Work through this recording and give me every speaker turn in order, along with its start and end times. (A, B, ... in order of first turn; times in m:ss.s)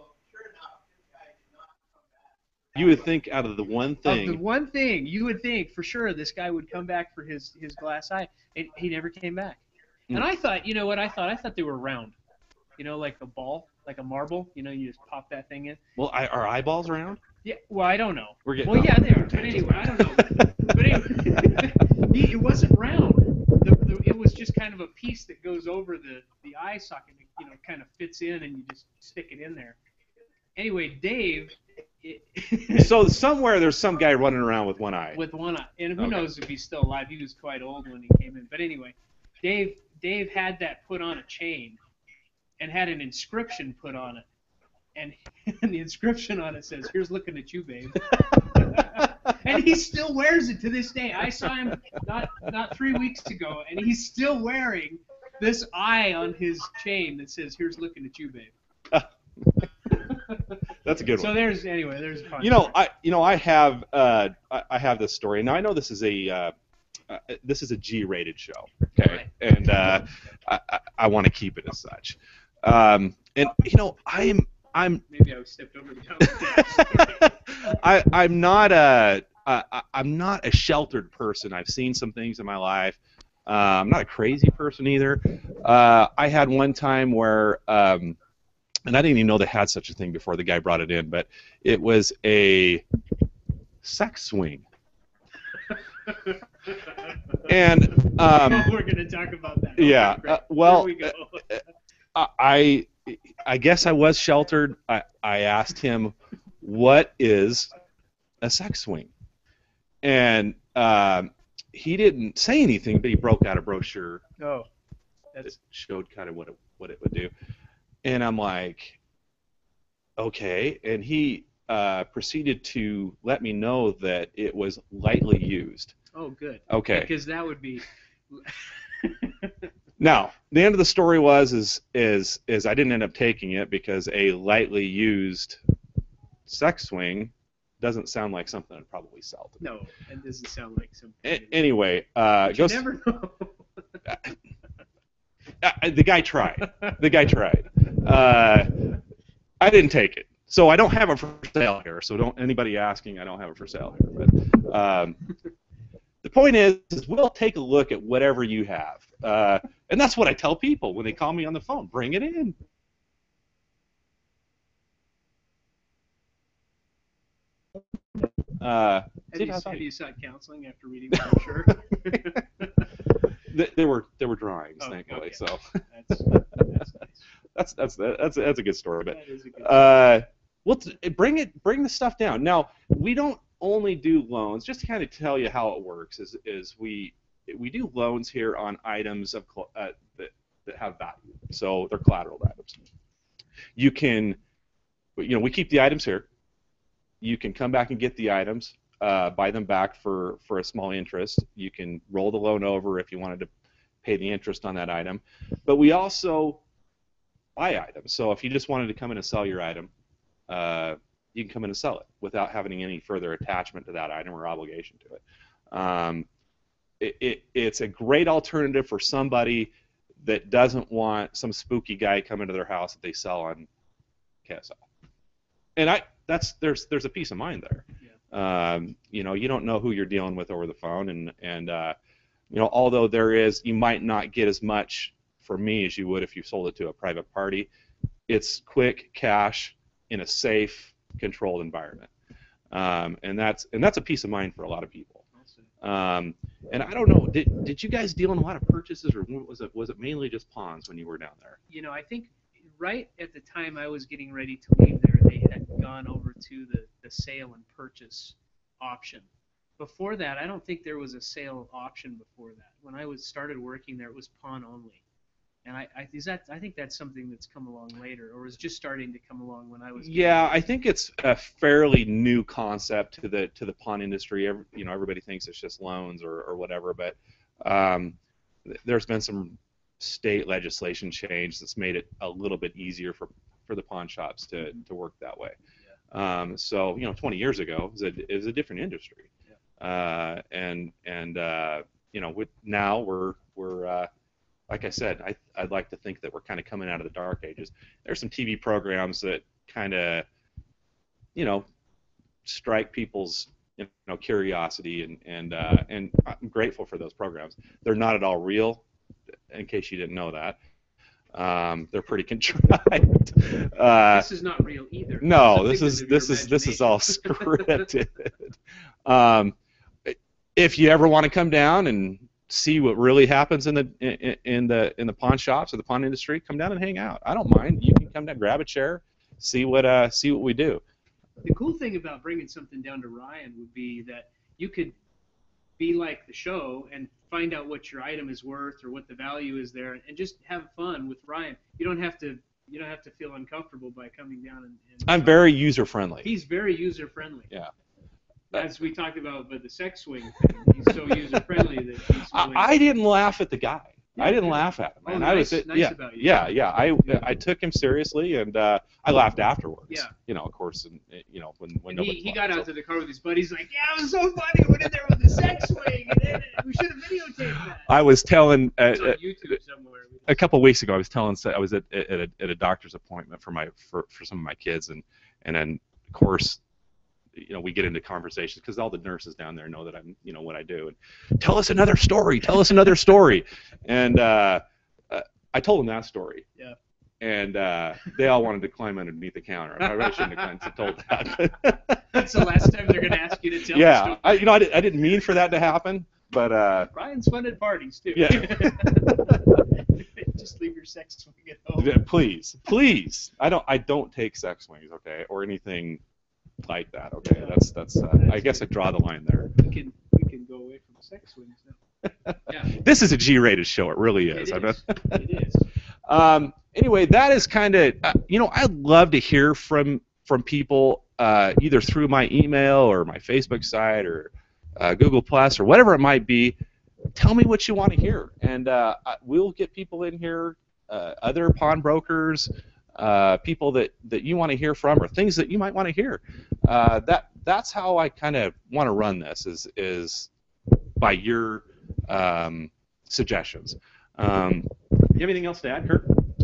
0:02.7-0:04.4 A
0:04.0-0:12.2 B
0:12.8-0:15.8 B
0:16.0-0:17.2 A
0:17.4-0:29.8 B
0:18.4-0:21.6 A
0:30.6-0:32.9 B
0:32.7-0:35.2 A
0:35.1-0:41.8 B
0:36.0-0:36.3 A
0:42.6-0:44.2 B
0:44.9-0:58.5 B
0:58.9-0:59.7 A
0:59.9-1:00.6 B
1:00.8-1:01.5 A
1:01.1-1:02.7 B
1:02.4-1:06.5 A
1:07.1-1:15.0 A
1:09.0-1:09.2 B
1:15.1-1:17.6 B
1:16.2-1:28.2 A
1:28.8-1:32.8 A
1:33.8-1:34.6 A
1:35.7-1:41.6 B
1:37.4-1:38.7 A
1:39.8-1:41.6 A
1:42.1-1:47.7 A
1:48.4-1:49.1 A
1:50.0-1:54.2 A
1:54.4-1:54.7 B
1:55.4-1:57.3 A
1:58.0-1:59.0 A
2:00.2-2:05.9 A
2:06.1-2:09.7 B
2:06.7-2:07.1 A
2:10.0-2:15.6 A
2:16.4-2:19.6 A
2:19.6-2:21.6 B
2:21.2-2:22.8 A
2:22.4-2:23.5 B
2:25.6-2:28.7 A
2:29.6-2:35.2 A
2:36.2-2:42.6 A
2:48.5-2:49.8 A
2:49.3-2:52.9 B
2:53.5-2:56.6 A
2:54.8-2:57.2 B
2:57.5-3:12.8 A
2:59.0-3:00.1 B
3:13.8-3:14.4 A
3:15.2-3:16.3 A
3:17.2-3:23.5 A
3:24.0-3:26.6 A
3:27.6-3:29.9 A
3:30.5-3:36.3 A
3:37.0-3:43.7 A
3:44.4-3:44.8 A
3:45.8-3:52.0 A
3:52.5-3:57.7 A
3:58.3-4:02.1 A
4:02.7-4:05.2 A
4:05.3-4:05.7 B
4:05.8-4:11.6 A
4:11.7-4:25.0 B
4:25.6-4:30.5 B
4:30.0-4:45.6 A
4:46.1-4:49.3 A
4:49.8-4:54.1 A
4:54.7-5:00.2 A
5:01.3-5:01.7 A
5:02.4-5:08.8 A
5:09.5-5:10.6 A
5:11.3-5:14.2 A
5:14.1-5:17.8 B
5:15.2-5:18.5 A
5:19.0-5:30.8 A
5:31.4-5:35.0 B
5:35.8-5:45.4 B
5:45.0-5:46.3 A
5:46.2-5:47.5 B
5:48.5-5:52.8 B
5:51.3-5:51.6 A
5:52.3-6:02.7 A
5:54.2-5:57.3 B
5:59.9-6:00.1 B
6:01.9-6:07.9 B
6:07.8-6:09.2 A
6:08.9-6:10.4 B
6:10.3-6:16.6 A
6:17.3-6:26.4 A
6:27.2-6:36.9 A
6:29.8-6:30.7 B
6:32.1-6:34.5 B
6:36.9-6:42.0 B
6:38.1-6:39.4 A
6:41.8-6:46.0 A
6:46.6-6:49.5 A
6:47.3-6:47.6 B
6:48.1-6:48.7 B
6:49.6-6:51.8 B
6:52.3-6:55.2 A
6:54.3-6:55.7 B
6:56.1-7:06.6 A
7:07.1-7:20.3 A
7:21.0-7:26.1 A